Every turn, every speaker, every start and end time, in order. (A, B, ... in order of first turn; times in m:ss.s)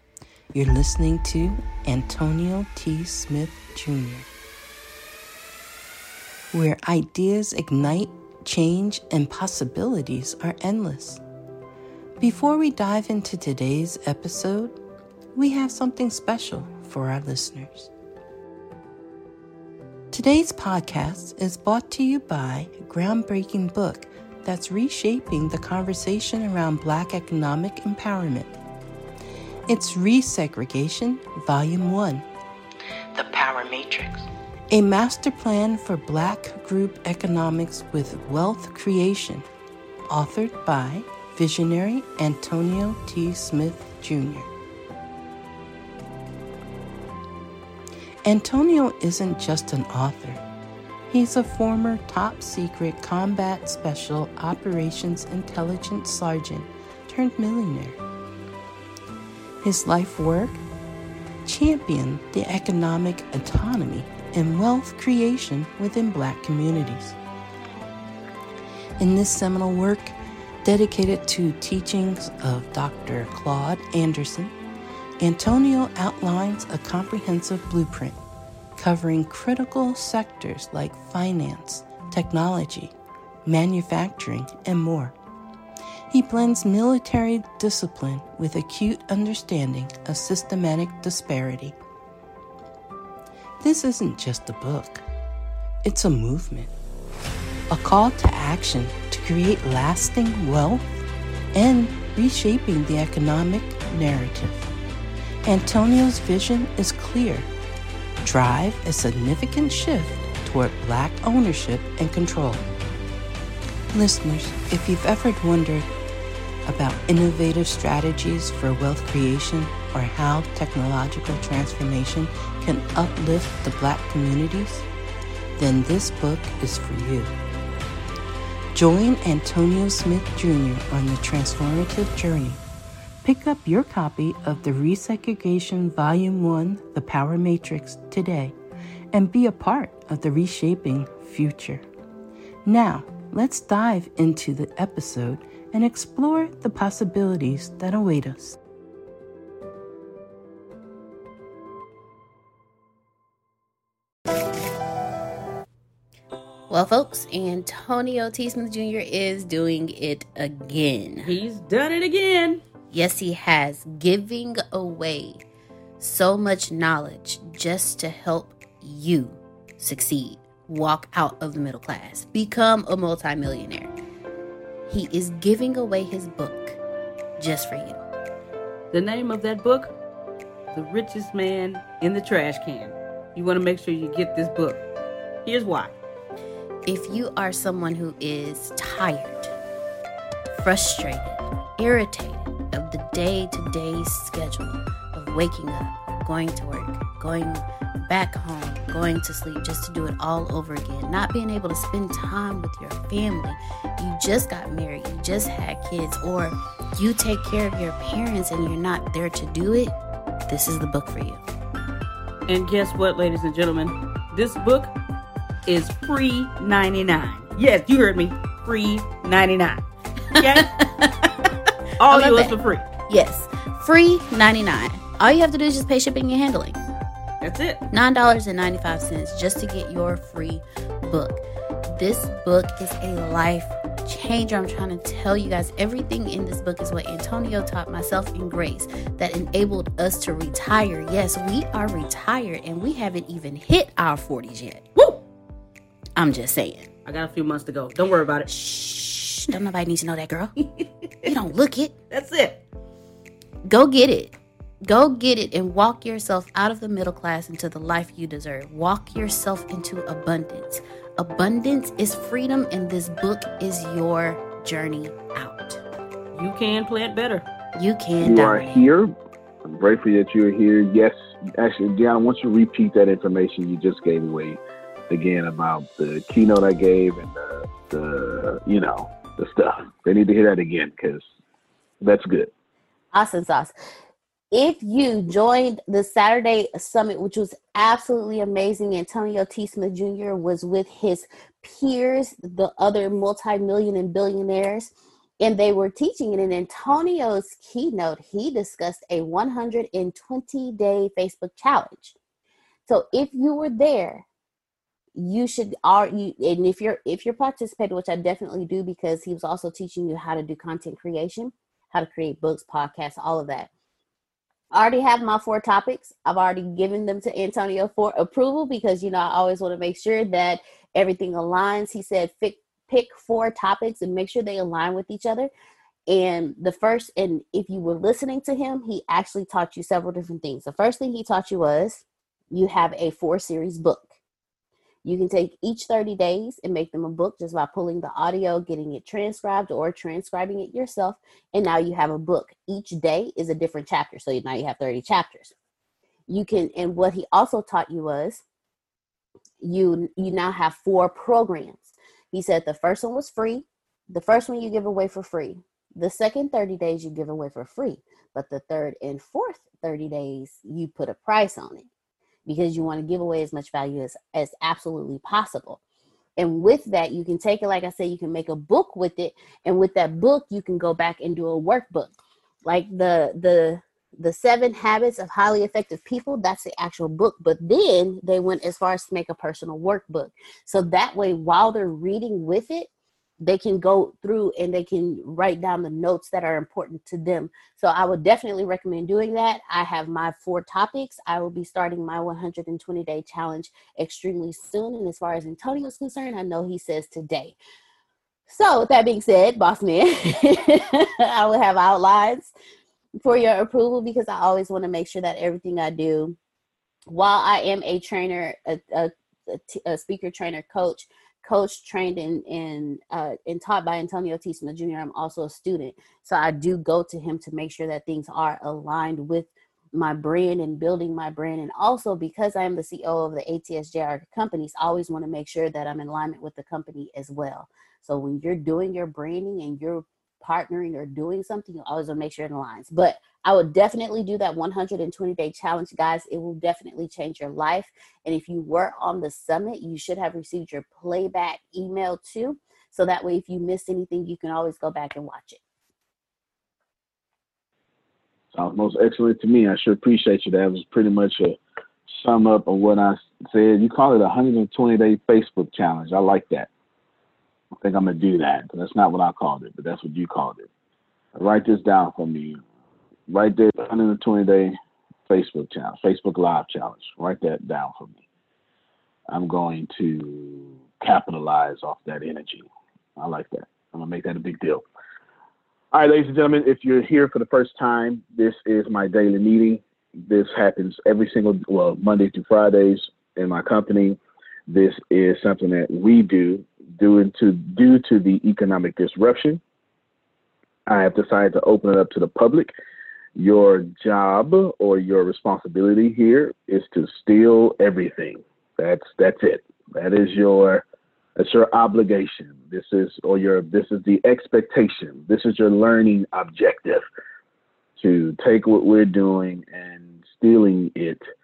0:00.5-0:04.3 A
0:06.5-0:11.2 A
0:12.2-0:14.8 A
0:15.3-0:17.9 A
0:20.1-0:28.6 A
0:29.7-0:32.2 A
0:33.1-0:39.4 A
0:40.1-0:44.5 A
0:48.2-0:50.4 A
0:51.1-0:58.0 A
0:59.6-1:00.6 A
1:01.4-1:07.2 A
1:09.0-1:14.5 A
1:15.2-1:18.2 A
1:18.8-1:22.9 A
1:23.4-1:25.1 A
1:26.1-1:31.8 A
1:33.6-1:35.0 A
1:35.8-1:36.7 A
1:37.7-1:40.8 A
1:41.5-1:44.7 A
1:45.4-1:47.5 A
1:48.2-1:52.6 A
1:53.9-1:55.9 A
1:56.6-2:04.8 A
2:05.6-2:07.3 A
2:08.7-2:12.6 A
2:13.2-2:18.5 A
2:19.1-2:21.8 A
2:22.6-2:28.6 A
2:36.7-2:41.3 B
2:41.2-2:42.6 C
2:42.9-2:45.4 B
2:46.0-2:53.9 B
2:54.9-2:56.8 B
2:57.4-2:58.0 B
2:58.9-2:59.9 C
3:00.7-3:04.8 C
3:05.4-3:05.9 C
3:06.9-3:09.5 B
3:10.5-3:29.9 B
3:30.5-3:31.4 B
3:32.4-3:34.9 C
3:35.6-3:39.8 C
3:40.4-3:41.3 C
3:42.0-3:42.9 C
3:42.1-3:46.8 B
3:47.4-3:47.8 C
3:47.9-4:04.8 B
4:06.2-4:06.9 B
4:07.0-4:08.5 C
4:08.5-4:10.5 B
4:10.7-4:11.3 C
4:11.2-4:11.9 B
4:12.1-4:12.6 C
4:13.6-4:25.8 B
4:26.3-4:27.5 C
4:27.7-4:28.8 B
4:28.2-4:29.1 D
4:29.6-4:41.2 D
4:42.0-4:42.5 D
4:43.1-4:43.7 B
4:44.5-5:02.1 B
5:02.9-5:04.2 B
5:05.1-5:13.7 B
5:14.7-5:25.5 B
5:26.1-5:34.1 B
5:35.0-5:45.5 B
5:46.3-5:48.4 B
5:49.6-6:01.9 B
6:02.4-6:05.8 B
6:06.4-6:12.1 B
6:12.6-6:22.9 B
6:23.4-6:37.6 B
6:38.5-6:42.5 B
6:43.2-6:46.4 B
6:47.1-7:25.6 B
7:28.5-7:31.6 D
7:32.1-7:36.7 D
7:37.8-7:40.7 D
7:41.3-7:42.6 D
7:43.3-7:44.7 D
7:45.3-7:48.2 D
7:49.3-7:54.8 D
7:55.9-8:09.6 D
8:10.9-8:12.7 D
8:13.4-8:20.8 D
8:21.4-8:27.0 D
8:28.0-8:31.2 D